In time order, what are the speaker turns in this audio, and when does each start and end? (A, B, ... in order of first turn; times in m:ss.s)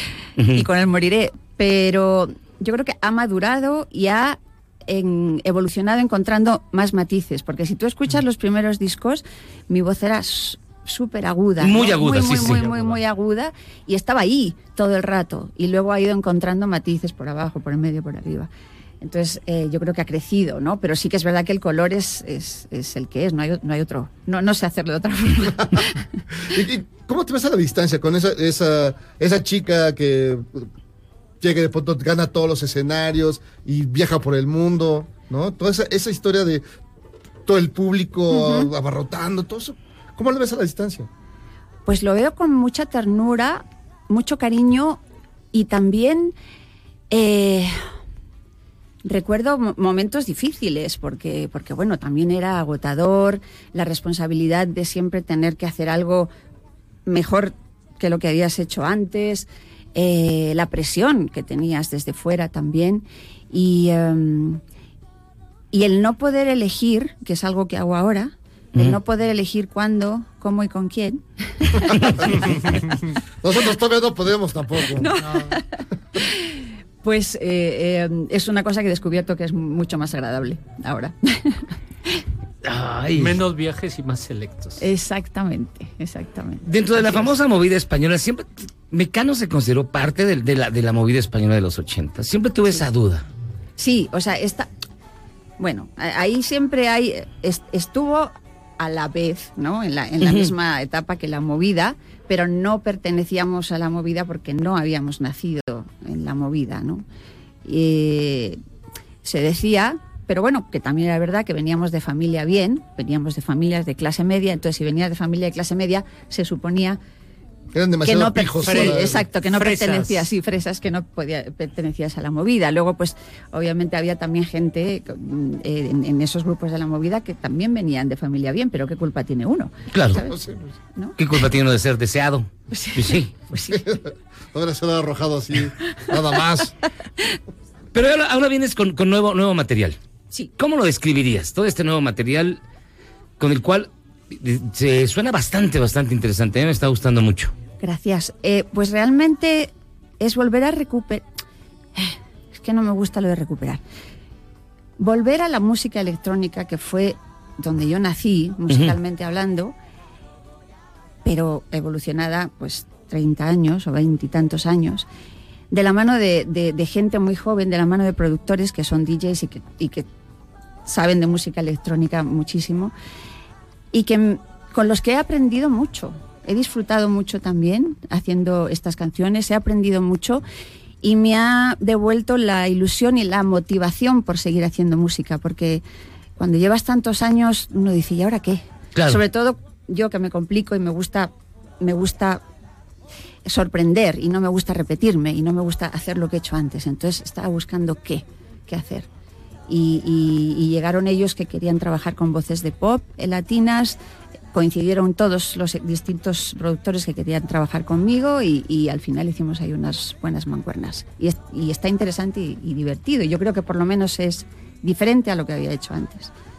0:00.4-0:00.6 A
0:00.5-0:18.5 B
0:11.6-0:12.9 A
0:19.0-0:26.0 B
0:26.5-0:30.7 C
0:31.4-0:36.6 C
0:37.5-0:41.1 C
0:38.3-0:38.7 B
0:41.9-0:45.0 B
0:45.5-0:46.3 B
0:47.1-0:47.8 B
0:49.0-0:56.3 B
0:57.1-1:04.6 B
1:05.7-1:12.4 B
1:13.4-1:15.2 C
1:15.0-1:15.6 B
1:16.2-1:22.2 B
1:22.6-1:23.4 A
1:23.2-1:24.6 D
1:24.8-1:27.3 B
1:26.6-1:33.2 A
1:33.8-1:34.7 B
1:35.6-1:47.0 B
1:40.2-1:40.5 A
1:47.6-1:48.6 B
1:49.2-1:57.0 B
1:57.7-1:59.2 C
1:58.0-2:10.4 B
1:58.6-2:00.3 D
2:09.9-2:10.2 A
2:10.2-2:10.7 C
2:11.2-2:13.3 A
2:12.7-2:13.8 B
2:13.7-2:16.7 C
2:17.9-2:20.0 A
2:20.5-2:22.6 A
2:23.4-2:27.5 A
2:27.8-2:31.3 B
2:32.0-2:33.8 B
2:35.0-2:39.8 B
2:38.7-2:39.0 A
2:41.2-2:45.1 B
2:45.7-2:50.1 B
2:50.9-2:52.9 B
2:53.9-3:00.4 B
3:01.0-3:05.8 B
3:06.4-3:12.4 B
3:09.0-3:09.2 A
3:13.5-3:19.1 B
3:19.7-3:24.0 B
3:24.5-3:36.3 B